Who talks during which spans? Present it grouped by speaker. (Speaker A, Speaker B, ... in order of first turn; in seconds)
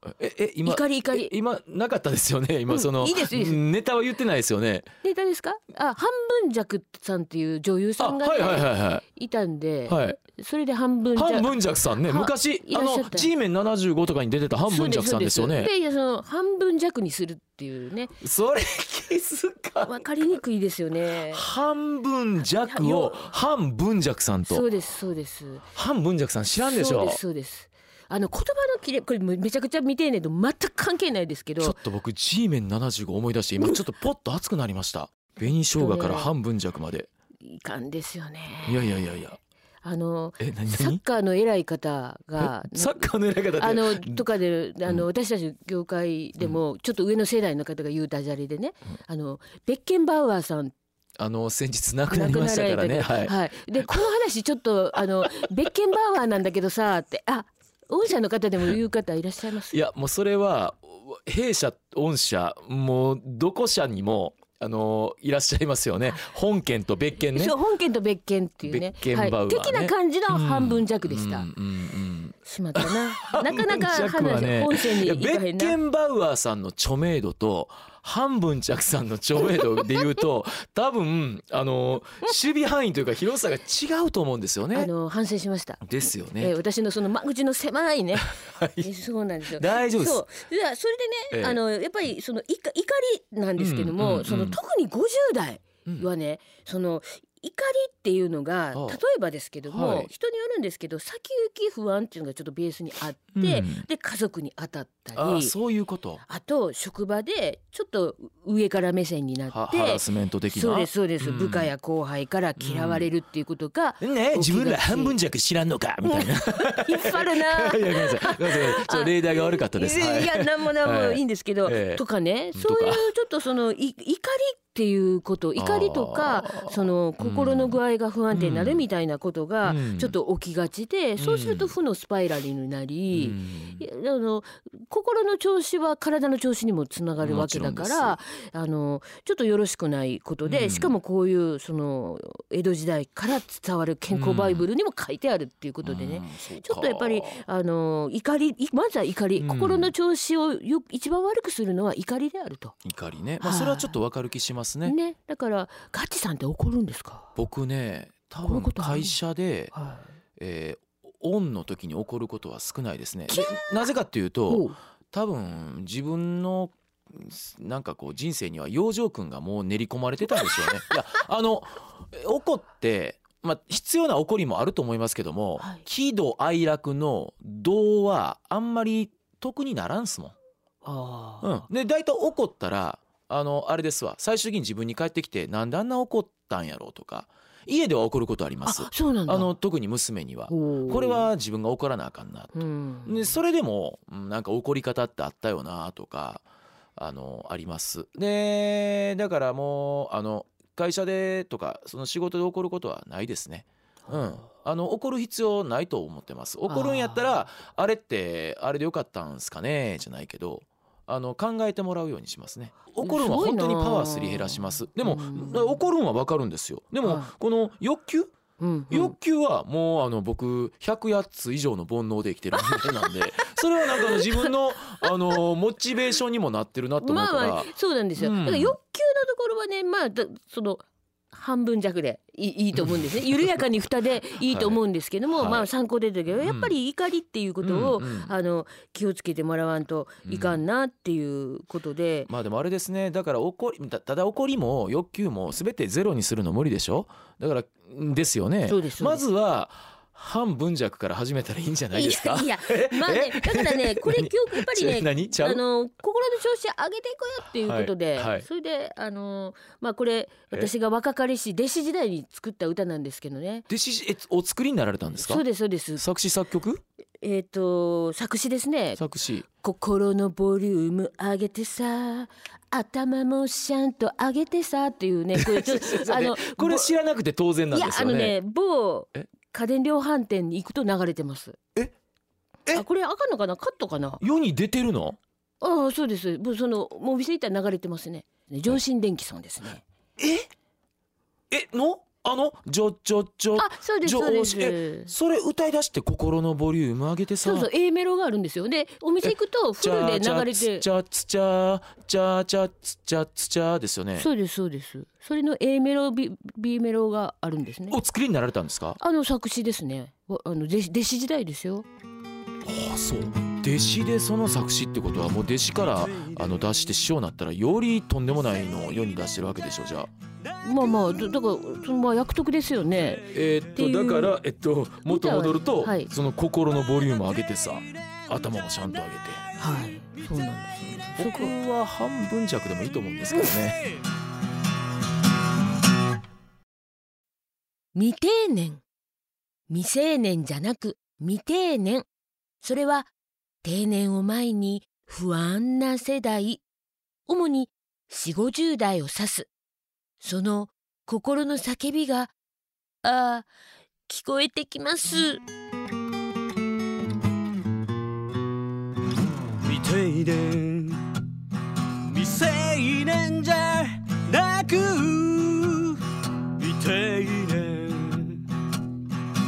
Speaker A: 0.2-4.9, 8.0-9.0, 9.9-10.2, 11.1-15.7, 18.2-20.3, 21.3-24.7, 25.7-27.2, 31.6-37.1, 38.6-39.4, 40.4-41.0, 42.4-44.2, 51.2-53.4, 59.7-67.6, 68.6-84.9, 85.8-86.5, 88.2-88.9, 89.5-90.2, 91.3-91.6, 93.6-94.6, 98.7-99.0, 99.7-100.1, 103.3-103.9, 105.1-106.2, 109.5-111.7, 112.6-113.1, 114.0-122.0, 122.5-123.1, 125.5-127.8, 128.3-128.8, 129.6-130.2, 131.2-131.7, 133.1-133.8, 137.2-138.2, 140.4-140.9, 144.1-144.7, 145.8-147.4, 149.4-149.9, 152.8-154.9, 157.3-159.7, 160.4-180.3, 181.4-196.4, 197.0-218.3, 218.9-228.8, 234.4-235.7, 236.3-236.7, 237.6-238.3, 240.2-240.6, 242.3-255.6, 257.5-258.4, 263.7-265.4, 265.9-266.8, 269.0-269.4, 275.3-278.4, 284.2-285.2, 290.2-290.5, 291.5-297.7, 299.2-304.3, 307.9-309.0, 312.6-320.1, 323.3-329.4, 331.1-333.9
Speaker B: 0.6-1.3, 2.7-3.6, 5.0-13.3, 14.7-18.2, 19.8-21.5, 22.4-23.3, 24.4-25.7, 26.6-31.8, 35.5-36.3, 37.4-39.0, 39.8-50.7, 52.1-59.8, 67.3-71.5, 72.4-75.8, 84.7-105.5, 106.2-115.2, 116.0-152.8, 153.4-153.9, 154.8-157.3, 158.4-159.2, 159.7-160.1, 163.3-163.7, 164.5-164.8, 180.8-181.6, 188.6-189.5, 190.5-191.3, 192.5-193.3, 206.7-207.3, 213.0-215.8, 217.0-217.3, 218.6-219.2, 222.5-225.4, 227.0-242.3, 248.6-249.2, 251.9-263.6, 265.2-266.1, 267.2-269.0, 269.5-276.9, 277.7-281.6, 282.7-284.2, 285.6-289.8, 293.5-295.1, 297.4-300.9, 304.1-308.0, 309.0-311.9, 320.6-324.4, 325.0-326.1, 329.6-331.5, 337.9-338.8, 339.7-342.1, 342.6-343.1, 343.6-346.6, 347.3-349.5, 350.2-352.3, 353.0-353.5, 354.1-355.4
Speaker C: 359.5-361.2, 362.0-368.6